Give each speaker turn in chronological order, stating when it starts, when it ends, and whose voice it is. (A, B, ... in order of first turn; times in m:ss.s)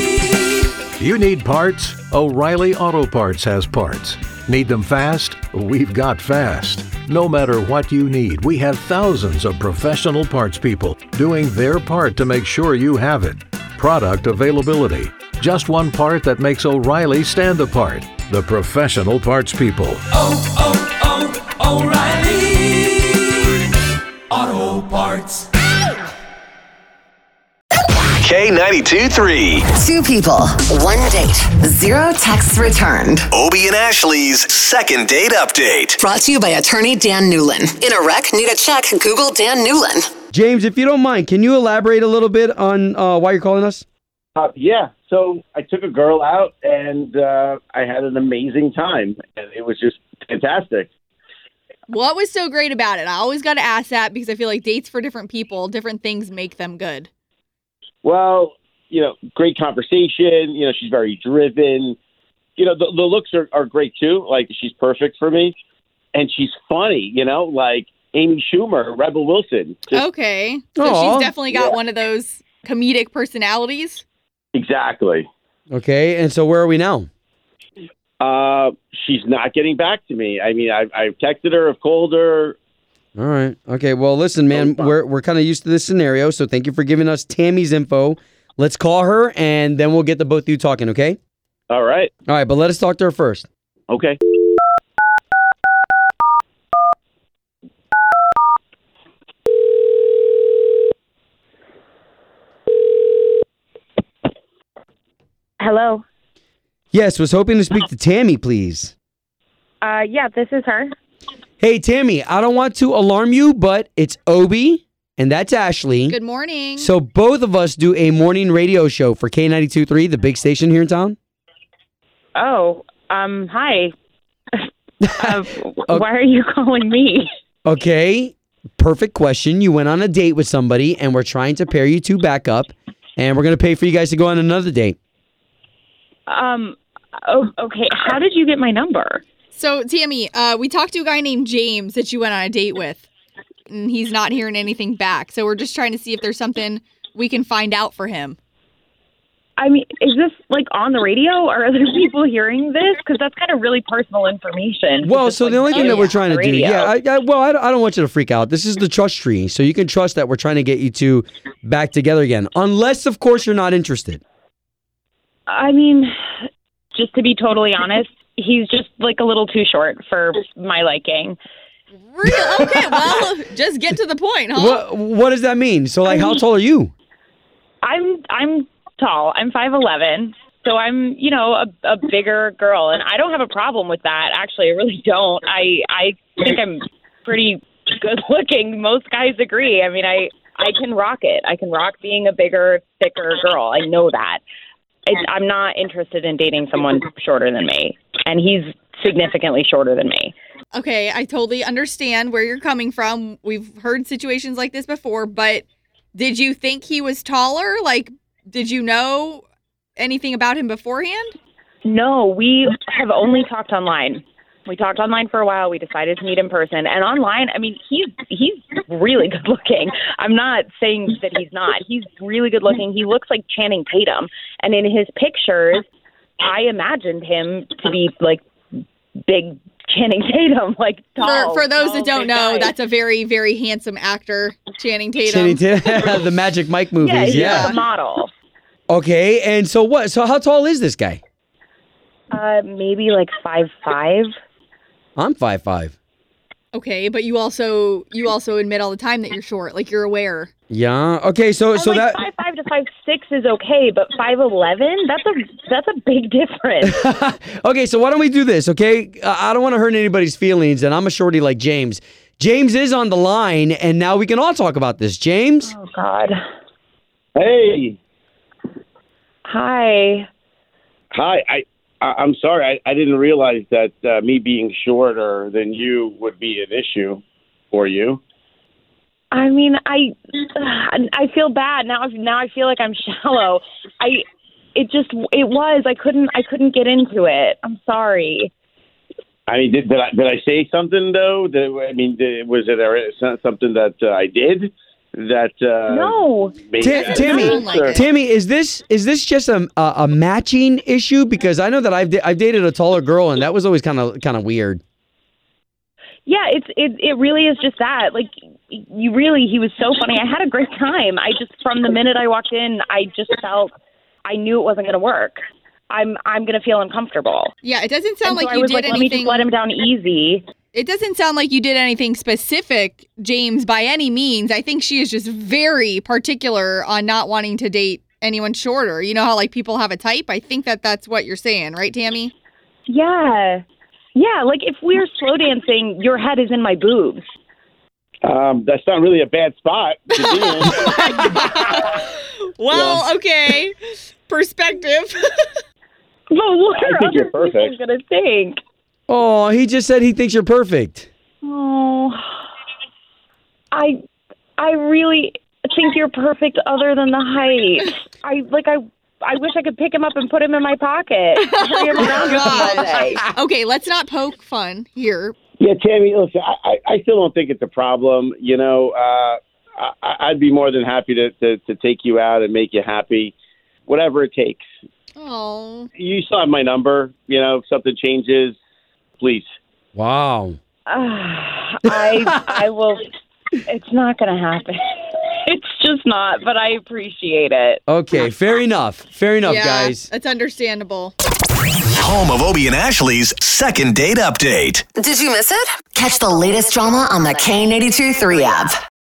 0:01.0-0:20.1 A
0:20.2-0:23.3 B
0:24.4-0:25.4 B
0:28.2-0:29.6 C
0:29.7-0:33.3 D
0:33.4-0:36.0 C
0:33.4-0:34.2 A
0:36.0-0:40.1 D
0:40.3-0:43.8 E
0:44.4-0:50.9 F
0:51.9-0:57.1 G
0:58.0-1:02.0 F
1:02.6-1:05.5 F
1:06.1-1:10.0 F
1:09.9-1:14.0 G
1:10.8-1:11.4 E
1:14.5-1:15.3 F
1:15.7-1:17.1 E
1:18.2-1:22.6 F
1:23.2-1:31.2 E
1:24.5-1:24.9 F
1:31.7-1:32.1 F
1:32.3-1:33.5 E
1:33.9-1:34.2 F
1:45.6-1:46.0 H
1:46.9-1:48.9 E
1:49.8-1:50.9 H
1:51.6-1:56.2 E
1:56.1-1:56.9 G
1:56.8-2:01.2 E
2:02.4-2:03.9 H
2:05.2-2:07.3 H
2:07.6-2:15.0 E
2:16.3-2:16.8 H
2:17.3-2:19.2 H
2:19.5-2:23.0 G
2:23.7-2:28.4 G
2:29.6-2:36.9 H
2:35.0-2:44.2 E
2:35.7-2:36.1 G
2:45.5-2:46.1 H
2:46.9-2:51.4 H
2:52.1-2:54.8 G
2:54.6-2:56.9 E
2:57.8-3:14.4 H
3:15.1-3:20.3 H
3:20.7-3:29.4 G
3:30.0-3:31.4 G
3:31.8-3:45.8 H
3:46.4-3:48.4 H
3:49.3-3:52.7 H
3:51.2-3:56.2 G
3:55.2-3:57.8 E
3:57.0-3:58.3 H
3:57.3-3:57.8 G
3:58.9-4:01.2 E
4:02.3-4:04.3 H
4:05.2-4:06.0 E
4:06.7-4:10.5 G
4:10.7-4:12.2 E
4:11.8-4:17.0 H
4:16.8-4:25.7 E
4:25.7-4:26.4 H
4:27.4-4:28.0 F
4:29.5-4:30.3 H
4:31.1-4:38.2 F
4:39.3-4:44.2 H
4:44.8-4:48.5 H
4:49.5-4:58.0 F
4:55.9-4:56.6 H
4:56.8-5:04.8 E
4:56.9-4:58.1 G
4:57.2-4:57.5 H
5:06.3-5:13.7 H
5:14.2-5:15.4 H
5:15.9-5:17.5 H
5:17.6-5:19.5 G
5:18.2-5:20.4 H
5:20.7-5:32.3 G
5:32.9-5:33.6 H
5:34.2-5:37.2 H
5:38.2-5:40.9 F
5:40.3-5:45.6 G
5:42.7-5:43.1 F
5:46.3-5:48.6 H
5:46.8-5:47.7 F
5:49.1-5:51.1 E
5:51.4-5:52.3 H
5:54.6-6:03.2 H
6:01.4-6:05.4 G
6:05.6-6:13.4 F
6:13.9-6:14.6 F
6:15.2-6:15.9 G
6:16.0-6:18.6 F
6:19.2-6:19.5 F
6:20.0-6:20.6 E
6:20.9-6:23.1 H
6:23.7-6:24.8 H
6:25.5-6:27.8 H
6:27.9-6:30.1 E
6:29.4-6:31.1 G
6:32.0-6:34.8 C
6:35.0-6:38.8 D